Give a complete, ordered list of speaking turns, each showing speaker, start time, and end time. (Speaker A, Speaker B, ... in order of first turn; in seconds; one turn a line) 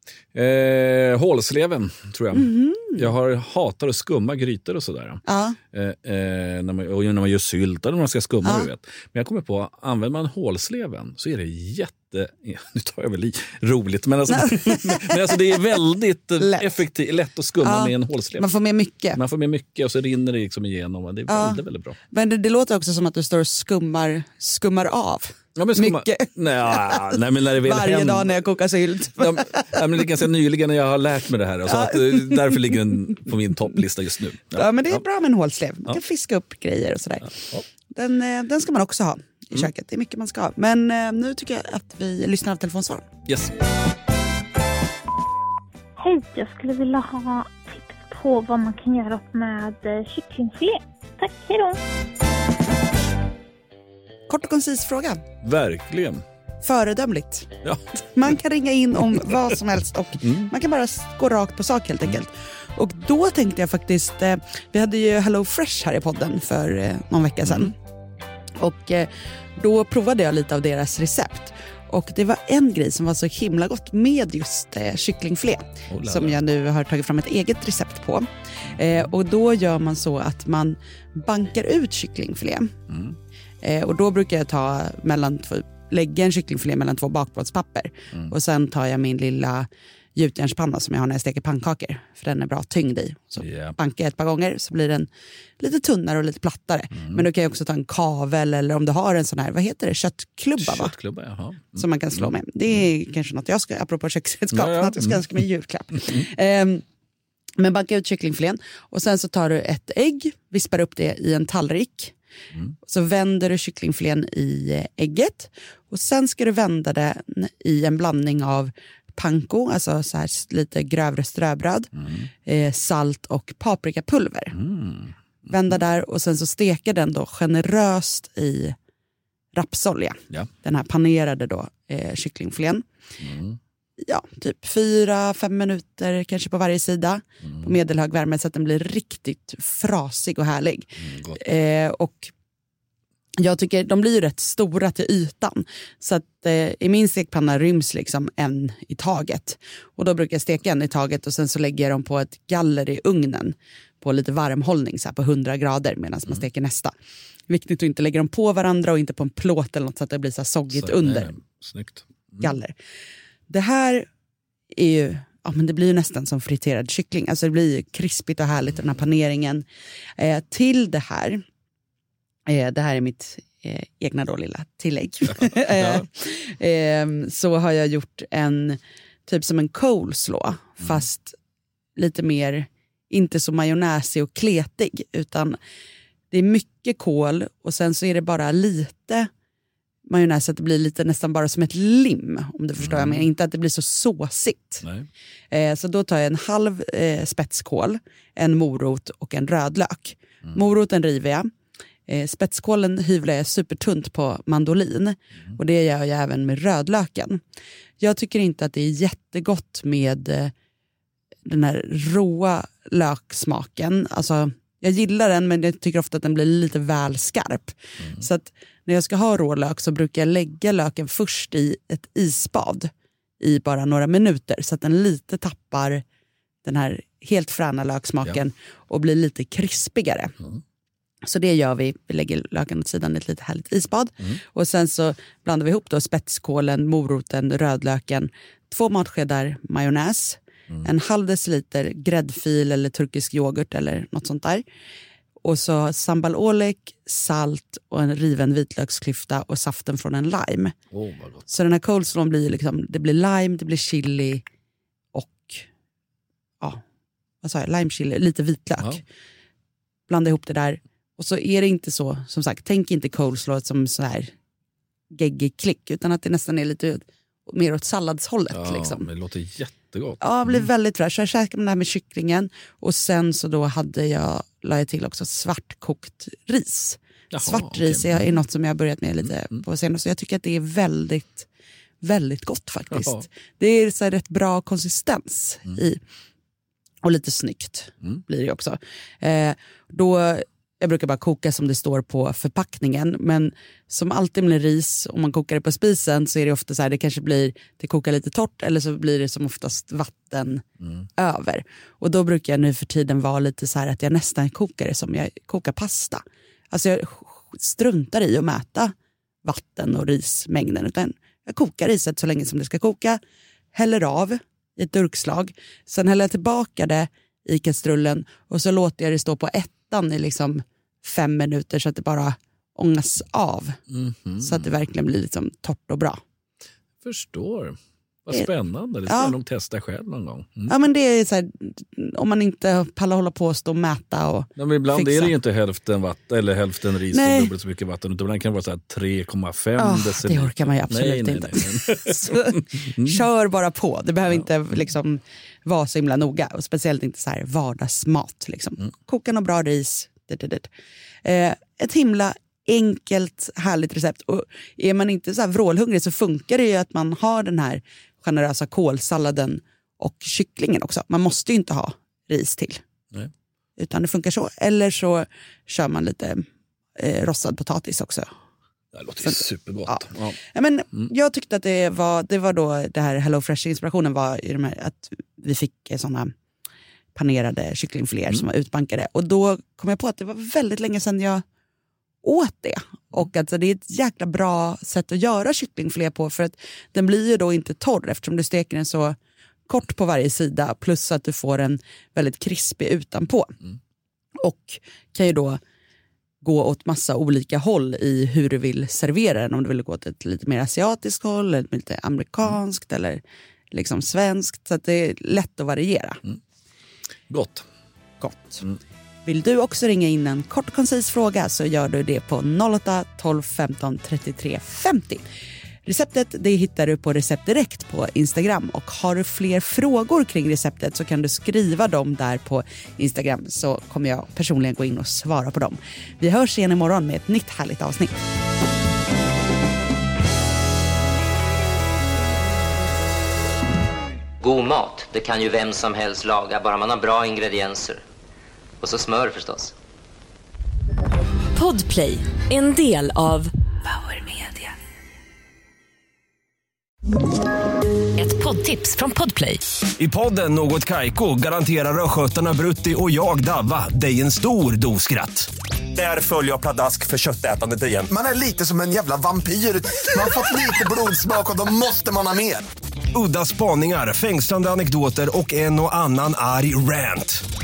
Speaker A: 0.3-5.2
Speaker B: 2.4-3.1
Speaker B: 5.2-5.6
Speaker A: 5.7-18.5
Speaker B: 8.4-8.7
Speaker B: 14.3-15.2
Speaker B: 16.4-16.7
Speaker B: 17.6-19.2
Speaker A: 19.1-22.0
Speaker B: 21.3-29.8
Speaker A: 25.6-28.3
Speaker A: 29.2-35.0
Speaker B: 31.7-32.7
Speaker B: 34.5-43.0
Speaker A: 43.3-43.5
Speaker C: 46.0-51.8
Speaker B: 54.3-55.2
Speaker A: 55.4-56.2
Speaker B: 56.6-57.5
Speaker B: 58.0-67.7
Speaker A: 60.2-60.5
Speaker A: 67.5-67.7
Speaker B: 68.6-82.7
Speaker A: 75.9-76.4
Speaker A: 82.9-83.2
Speaker B: 83.6-95.1
Speaker A: 93.4-93.8
Speaker B: 95.6-100.9
Speaker A: 97.0-97.2
Speaker A: 100.6-102.3
Speaker B: 101.7-106.8
Speaker A: 104.5-105.4
Speaker B: 107.6-112.1
Speaker B: 112.8-121.9
Speaker A: 122.0-122.2
Speaker B: 122.4-124.5
Speaker A: 124.5-125.1
Speaker B: 125.5-128.8
Speaker B: 129.5-132.8
Speaker A: 133.2-133.6
Speaker B: 134.0-142.3
Speaker A: 141.0-141.4
Speaker B: 143.4-156.9
Speaker B: 157.5-161.3
Speaker A: 160.7-162.5
Speaker B: 162.4-162.8
Speaker B: 163.5-164.1
Speaker B: 164.7-169.7
Speaker B: 170.2-171.4
Speaker B: 172.5-181.4
Speaker A: 175.4-176.0
Speaker B: 181.9-185.6
Speaker B: 186.3-189.3
Speaker B: 190.1-194.8
Speaker A: 192.8-193.2
Speaker B: 195.5-201.5
Speaker B: 202.1-207.4
Speaker B: 208.0-210.5
Speaker B: 211.4-226.0
Speaker B: 226.6-230.3
Speaker B: 231.3-244.6
Speaker B: 245.4-250.7
Speaker A: 250.9-251.5
Speaker B: 251.5-254.4
Speaker B: 255.1-255.7
Speaker B: 257.4-259.0
Speaker B: 260.1-264.3
Speaker B: 265.1-269.1
Speaker A: 268.5-270.7
Speaker B: 270.2-281.5
Speaker A: 277.3-278.3
Speaker B: 282.0-286.0
Speaker A: 282.9-283.2
Speaker B: 287.0-300.6
Speaker B: 301.2-308.9
Speaker B: 309.4-313.2
Speaker B: 313.7-323.8
Speaker A: 323.9-324.6
Speaker B: 324.4-326.2
Speaker A: 327.0-330.7
Speaker B: 329.1-329.4
Speaker B: 330.7-335.3
Speaker A: 334.6-343.2
Speaker B: 337.1-337.5
Speaker B: 339.8-350.7
Speaker B: 351.2-362.8
Speaker B: 363.8-366.4
Speaker B: 366.9-368.3
Speaker A: 368.9-370.4
Speaker B: 369.2-376.3
Speaker B: 377.1-381.4
Speaker B: 382.2-389.1
Speaker B: 389.7-393.5
Speaker B: 394.4-395.6
Speaker B: 396.4-403.2
Speaker B: 403.7-406.2
Speaker A: 407.3-407.6
Speaker B: 408.2-408.7
Speaker B: 409.2-415.2
Speaker B: 415.8-428.1
Speaker D: 434.4-438.0
Speaker D: 438.8-439.7
Speaker E: 441.5-444.7
Speaker E: 448.1-449.6
Speaker F: 450.0-458.1
Speaker G: 458.1-462.6
Speaker F: 463.1-467.4